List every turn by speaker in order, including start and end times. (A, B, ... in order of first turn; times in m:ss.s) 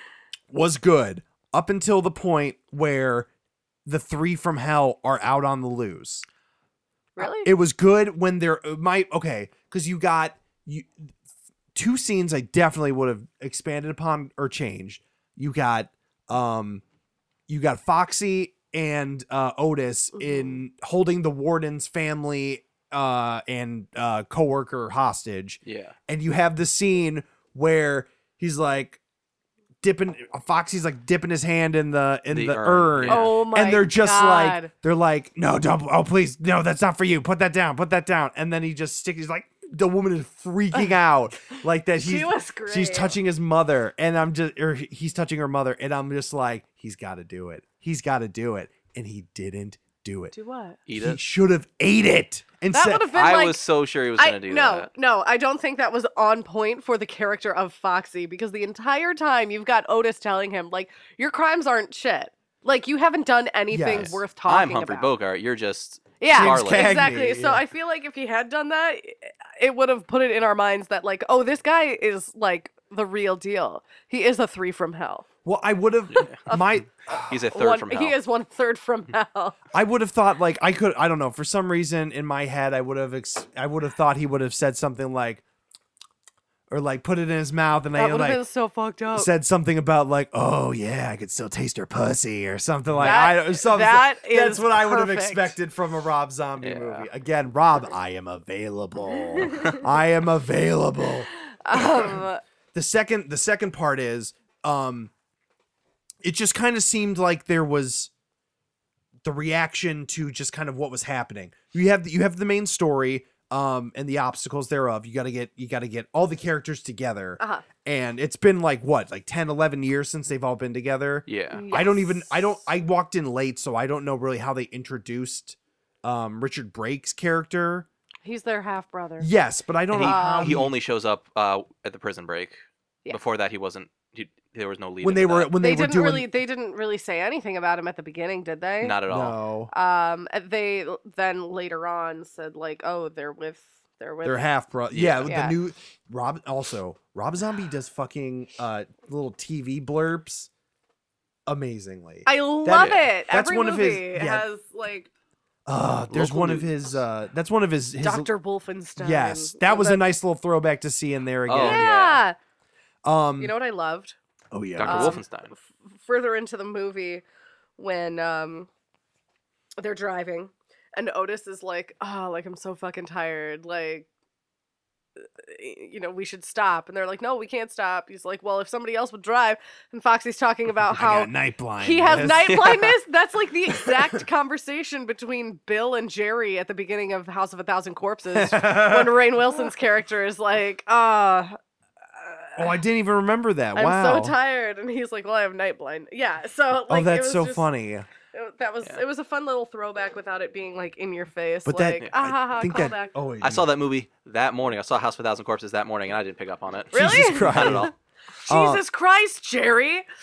0:00.5-0:03.3 A
0:03.8-0:06.2 A
0:07.2-0:07.5 B
0:07.2-0:11.1 A
0:11.7-0:16.8 A
0:17.5-0:29.0 A
0:20.1-0:20.6 B
0:25.6-0:26.0 C
0:29.8-0:50.3 A
0:32.3-0:33.3 C
0:33.1-0:34.7 B
0:42.0-0:43.1 B
0:50.3-0:50.8 B
0:50.9-0:51.2 C
0:50.9-0:53.1 A
0:52.7-0:53.6 B
0:53.1-0:54.9 C
0:54.2-1:05.1 B
1:03.7-1:04.2 A
1:04.0-1:07.1 C
1:06.2-1:15.2 B
1:06.3-1:07.6 A
1:15.4-1:17.4 A
1:16.1-1:16.4 C
1:17.2-1:18.2 C
1:17.5-1:19.6 B
1:19.7-1:25.4 A
1:26.7-1:28.4 A
1:28.0-1:29.3 B
1:29.1-1:42.2 A
1:33.0-1:35.6 B
1:36.6-1:37.1 C
1:41.6-1:42.4 B
1:42.7-1:45.1 A
1:46.2-1:48.1 A
1:49.2-2:07.9 A
1:57.4-1:57.6 B
2:01.3-2:01.6 C
2:01.5-2:02.5 B
2:08.2-2:09.3 B
2:09.2-2:10.7 A
2:09.9-2:15.5 C
2:10.0-2:10.6 B
2:15.0-2:16.3 A
2:15.6-2:19.0 B
2:18.8-2:19.4 C
2:19.1-2:19.7 A
2:19.7-2:24.5 B
2:24.2-2:30.5 A
2:24.9-2:25.3 C
2:25.2-2:25.5 B
2:31.4-2:34.4 A
2:32.2-2:35.1 B
2:35.6-2:38.3 A
2:36.1-2:36.9 C
2:38.0-2:40.0 B
2:39.0-2:41.9 A
2:41.5-2:42.2 C
2:41.6-2:42.4 B
2:43.0-2:43.5 A
2:43.4-2:44.2 B
2:44.5-2:45.2 A
2:44.8-2:45.5 C
2:44.8-2:47.2 B
2:47.8-2:48.7 B
2:49.8-2:54.1 B
2:55.4-3:11.6 B
3:00.9-3:02.7 A
3:08.3-3:09.2 A
3:12.2-3:12.8 B
3:12.6-3:14.4 A
3:13.7-3:17.7 B
3:16.9-3:18.1 A
3:18.3-3:23.1 B
3:21.6-3:23.7 A
3:23.4-3:27.9 C
3:26.9-3:27.9 B
3:26.9-3:27.9 A
3:28.4-3:30.0 B
3:28.5-3:28.8 A